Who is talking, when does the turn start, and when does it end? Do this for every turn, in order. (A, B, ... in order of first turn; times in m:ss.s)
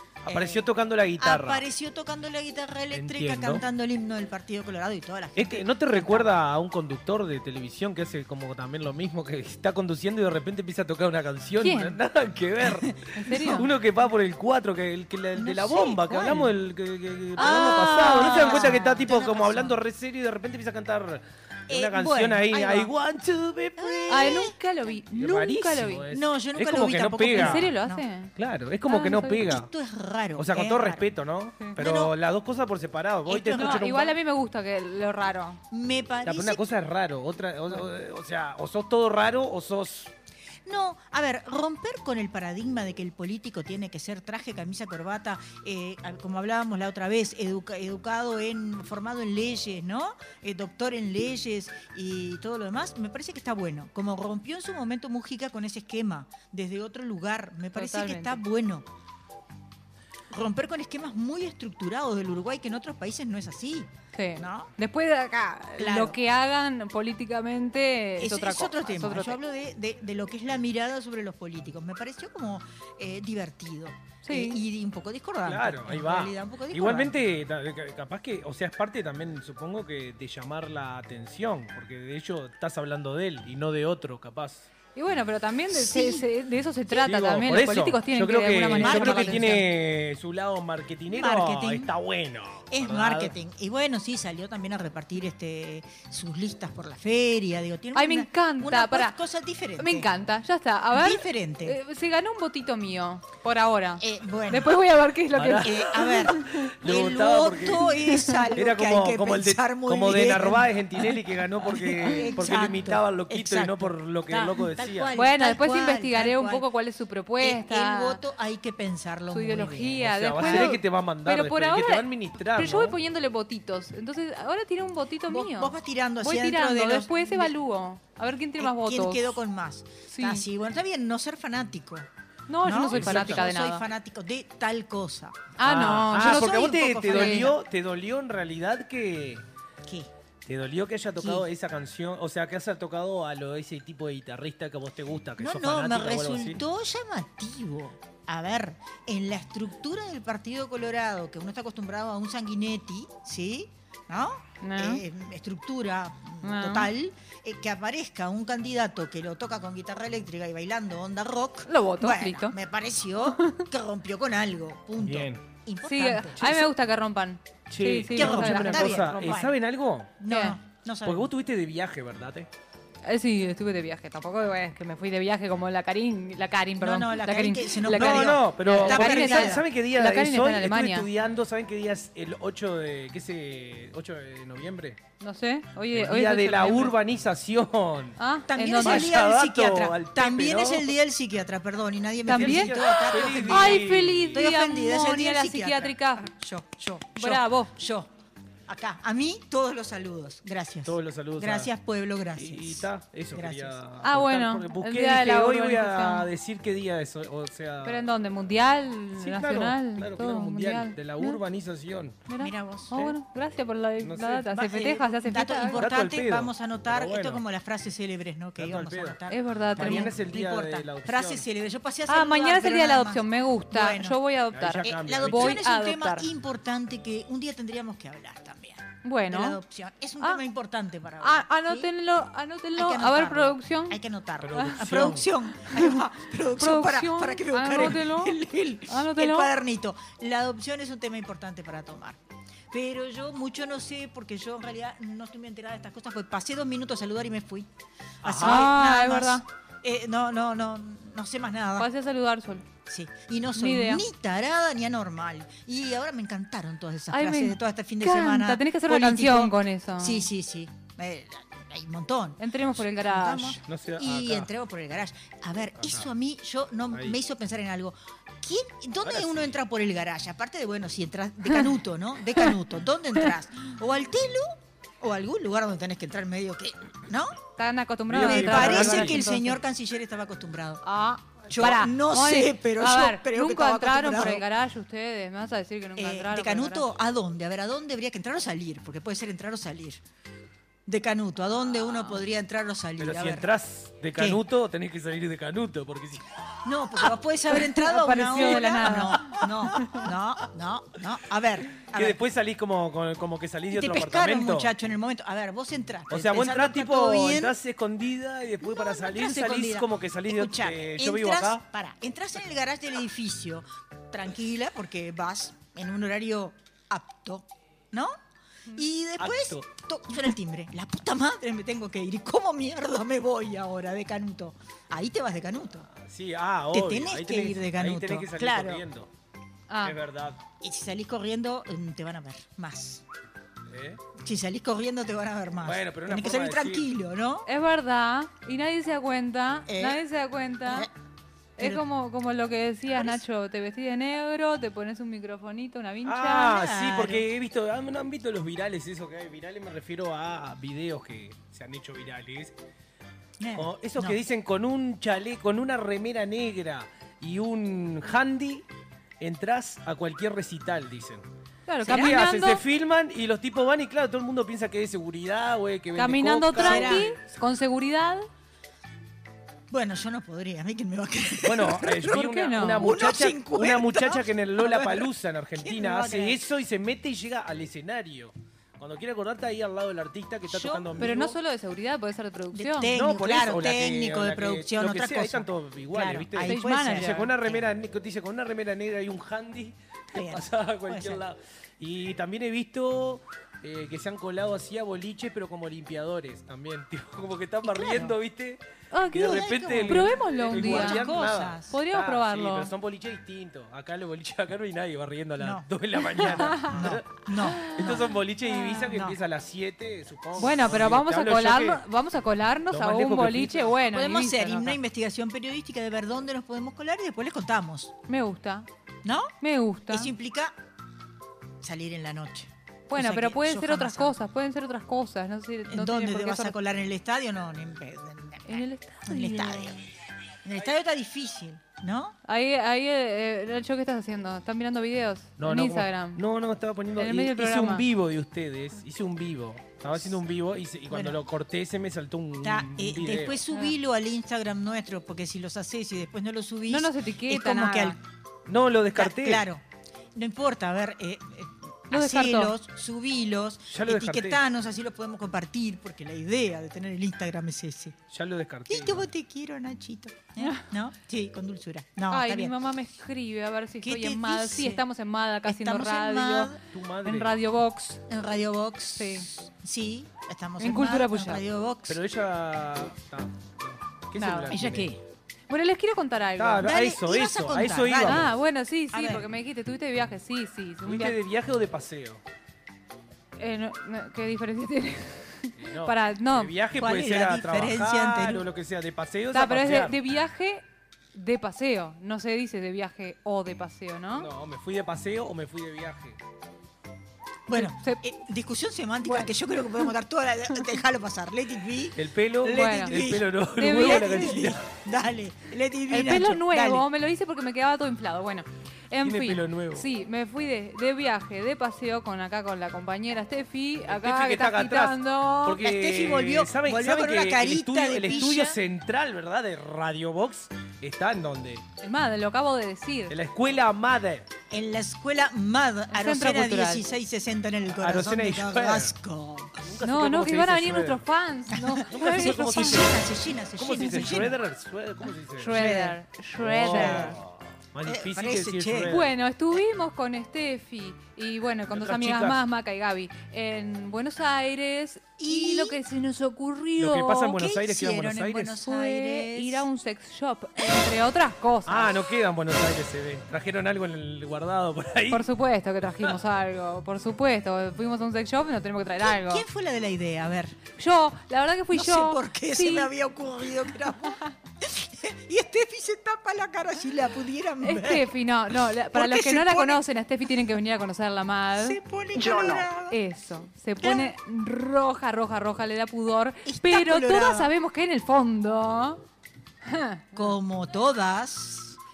0:00.2-0:01.6 A
0:00.3-0:06.3 B
0:02.9-0:03.6 A
0:05.4-0:24.0 A
0:11.6-0:12.0 C
0:12.6-0:13.7 B
0:13.1-0:13.7 C
0:15.4-0:16.5 B
0:17.4-0:18.9 C
0:17.4-0:19.8 B
0:21.7-0:22.9 B
0:23.8-0:24.6 B
0:24.1-0:26.1 C
0:25.2-0:27.7 A
0:26.1-0:28.1 B
0:27.3-0:28.3 C
0:28.4-0:29.7 A
0:28.9-0:29.5 C
0:29.3-0:31.0 B
0:30.4-0:34.1 A
0:31.8-0:32.2 B
0:33.3-0:34.0 B
0:33.5-0:35.6 C
0:35.7-0:36.6 B
0:36.3-0:40.1 A
0:40.7-0:58.9 B
0:57.7-0:58.4 C
1:00.3-1:04.7 B
1:04.1-1:09.4 C
1:05.8-1:06.2 B
1:08.2-1:17.2 B
1:14.2-1:14.6 C
1:15.4-1:24.7 A
1:25.0-1:29.6 C
1:25.7-1:26.3 B
1:26.9-1:33.4 A
1:28.8-1:29.7 B
1:31.1-1:31.9 B
1:32.7-1:40.1 B
1:38.0-1:39.2 C
1:39.8-1:46.7 C
1:40.9-1:41.8 B
1:44.0-1:44.7 B
1:45.4-1:45.8 A
1:45.6-1:51.2 B
1:46.8-1:47.9 A
1:48.0-1:48.5 C
1:48.6-1:55.1 A
1:52.2-1:56.7 B
1:55.2-1:58.2 C
1:57.4-2:00.8 B
1:59.3-2:09.3 C
2:00.0-2:03.0 A
2:05.3-2:07.5 B
2:08.6-2:12.1 B
2:10.1-2:10.5 C
2:12.5-2:13.9 C
2:12.6-2:15.5 B
2:12.9-2:13.4 A
2:15.6-2:17.5 C
2:15.6-2:19.4 A
2:16.1-2:17.6 B
2:19.8-2:20.1 B
2:20.5-2:26.6 A
2:21.2-2:21.5 B
2:25.4-2:46.7 B
2:34.6-2:35.0 C
2:36.4-2:36.9 C
2:41.7-2:42.6 C
2:43.3-2:43.6 C
2:45.0-2:45.4 A
2:45.8-2:49.4 C
2:47.7-2:50.2 A
2:48.1-2:49.6 B
2:50.2-2:51.3 B
2:50.3-2:50.6 C
2:51.0-2:52.5 A
2:53.0-3:01.1 C
2:56.8-2:59.6 B
2:57.9-3:05.0 A
3:05.2-3:07.0 C
3:05.9-3:08.2 A
3:08.2-3:09.1 C
3:08.5-3:18.1 B
3:08.8-3:10.9 A
3:12.3-3:16.3 C
3:12.3-3:14.4 A
3:17.2-3:17.7 C
3:18.7-3:23.8 B
3:20.9-3:21.7 A
3:22.4-3:28.0 A
3:24.0-3:26.3 C
3:27.8-3:31.4 C
3:29.2-3:32.2 A
3:32.3-3:35.9 C
3:32.4-3:33.0 B
3:34.0-3:34.6 A
3:34.6-3:44.2 B
3:35.8-3:37.4 A
3:38.6-3:39.2 A
3:39.3-3:40.1 C
3:39.8-3:41.5 A
3:42.1-3:46.3 C
3:44.5-3:45.6 A
3:45.0-3:51.9 B
3:49.0-3:49.6 C
3:51.2-3:54.0 C
3:52.8-4:02.2 B
3:54.4-3:55.3 A
3:55.5-3:56.0 C
3:56.6-3:59.5 C
4:02.7-4:07.7 B
4:08.2-4:11.9 B
4:08.2-4:08.7 A
4:08.4-4:09.4 C
4:11.8-4:12.7 C
4:12.9-4:22.4 B
4:13.6-4:14.0 C
4:17.1-4:20.3 C
4:22.4-4:23.6 C
4:23.0-4:37.4 B
4:23.7-4:24.5 A
4:25.8-4:26.1 A
4:29.0-4:29.5 A
4:37.6-4:39.6 C
4:38.1-4:39.3 A
4:38.2-4:40.8 B
4:40.8-4:46.9 C
4:41.5-4:44.4 B
4:46.0-4:50.0 B
4:50.9-4:53.5 B
4:53.0-4:56.3 A
4:56.6-5:02.2 B
4:57.6-5:00.1 C
4:58.4-4:58.6 A
5:01.9-5:04.7 A
5:03.7-5:07.6 B
5:06.1-5:11.6 A
5:08.6-5:18.2 B
5:18.7-5:25.9 B
5:19.2-5:19.7 A
5:25.9-5:29.1 A
5:26.7-5:28.8 B
5:29.7-5:30.0 C
5:29.8-5:30.4 A
5:30.6-5:33.0 B
5:33.7-5:34.0 A
5:34.2-5:37.5 B
5:35.6-5:36.9 A
5:37.5-5:40.9 C
5:39.7-5:40.0 B
5:40.6-5:40.9 B
5:41.6-5:46.6 C
5:41.6-5:41.8 B
5:46.0-5:52.5 A
5:46.3-5:47.3 B
5:53.4-5:54.2 B
5:53.6-5:58.7 A
5:59.2-6:01.2 A
6:01.7-6:02.6 C
6:01.9-6:07.2 A
6:06.0-6:08.3 C
6:06.6-6:07.1 B
6:09.7-6:16.4 B
6:11.4-6:21.4 A
6:12.1-6:12.9 C
6:20.5-6:21.1 B
6:21.0-6:22.9 C
6:22.5-6:27.7 B
6:22.9-6:38.6 A
6:26.4-6:27.3 C
6:30.1-6:31.2 B
6:37.7-6:38.1 B
6:38.9-6:41.2 C
6:39.1-6:51.8 A
6:39.2-6:41.8 B
6:41.7-6:42.7 C
6:45.4-6:48.2 B
6:46.2-6:46.8 C
6:47.4-6:47.9 C
6:48.4-6:48.9 C
6:48.8-6:49.2 B
6:50.4-6:54.8 C
6:52.7-6:53.8 A
6:53.9-6:58.0 B
6:58.1-6:58.7 C
6:59.0-6:59.3 B
6:59.4-7:00.1 C
6:59.9-7:00.6 B
7:01.6-7:04.2 B
7:02.9-7:06.6 C
7:05.7-7:09.9 B
7:08.5-7:09.7 C
7:10.4-7:12.2 B
7:12.3-7:16.2 C
7:15.4-7:23.4 A
7:17.0-7:17.8 C
7:20.9-7:21.2 B
7:22.4-7:28.0 B
7:26.7-7:28.0 C
7:28.5-7:29.5 A
7:29.0-7:29.6 B
7:30.2-7:38.0 B
7:31.9-7:32.5 C
7:33.7-7:34.4 A
7:38.1-7:39.1 A
7:38.7-7:42.6 B
7:40.4-7:40.7 C
7:42.1-7:46.5 C
7:43.8-7:44.8 B
7:45.5-7:46.6 B
7:46.7-7:47.3 A
7:47.1-7:48.0 C
7:48.1-7:52.0 B
7:49.0-7:49.3 C
7:50.6-7:51.4 C
7:51.9-7:54.9 A
7:54.2-7:54.6 C
7:54.5-7:55.0 B
7:55.5-7:56.7 C
7:56.4-7:58.3 A
7:56.6-7:58.3 B
7:58.0-8:01.2 C
7:58.9-7:59.3 B
8:00.8-8:02.2 A
8:03.4-8:06.5 C
8:05.6-8:10.0 A
8:06.8-8:08.5 B
8:09.3-8:14.3 C
8:14.2-8:16.2 A
8:17.5-8:26.9 B
8:17.5-8:18.0 C
8:22.0-8:24.6 A
8:22.5-8:23.0 C
8:23.6-8:24.4 C
8:25.9-8:35.6 C
8:29.0-8:29.9 A
8:33.9-8:41.6 A
8:35.6-8:38.6 B
8:41.8-8:43.2 C
8:43.1-8:44.3 A
8:44.5-8:49.6 B
8:45.9-8:46.8 C
8:47.8-8:48.9 A
8:49.6-8:51.0 A
8:49.8-8:52.8 C
8:51.5-8:54.4 B
8:51.9-8:53.0 A
8:53.6-8:55.8 A
8:55.4-8:57.2 C
8:55.5-8:56.0 B
8:56.4-8:59.1 A
8:56.6-8:57.2 B
8:57.8-8:59.0 B
8:58.9-9:07.3 C
9:01.7-9:02.4 A
9:05.2-9:05.8 B
9:06.8-9:08.6 A
9:07.3-9:09.7 B
9:08.6-9:11.9 C
9:11.7-9:15.2 A
9:15.1-9:19.4 C
9:19.0-9:20.6 B
9:20.8-9:22.9 C
9:21.7-9:28.1 B
9:27.6-9:39.0 C
9:28.9-9:29.8 B
9:31.6-9:33.0 B
9:33.8-9:34.1 B
9:36.4-9:37.5 B
9:39.6-9:40.4 C
9:40.1-9:41.8 B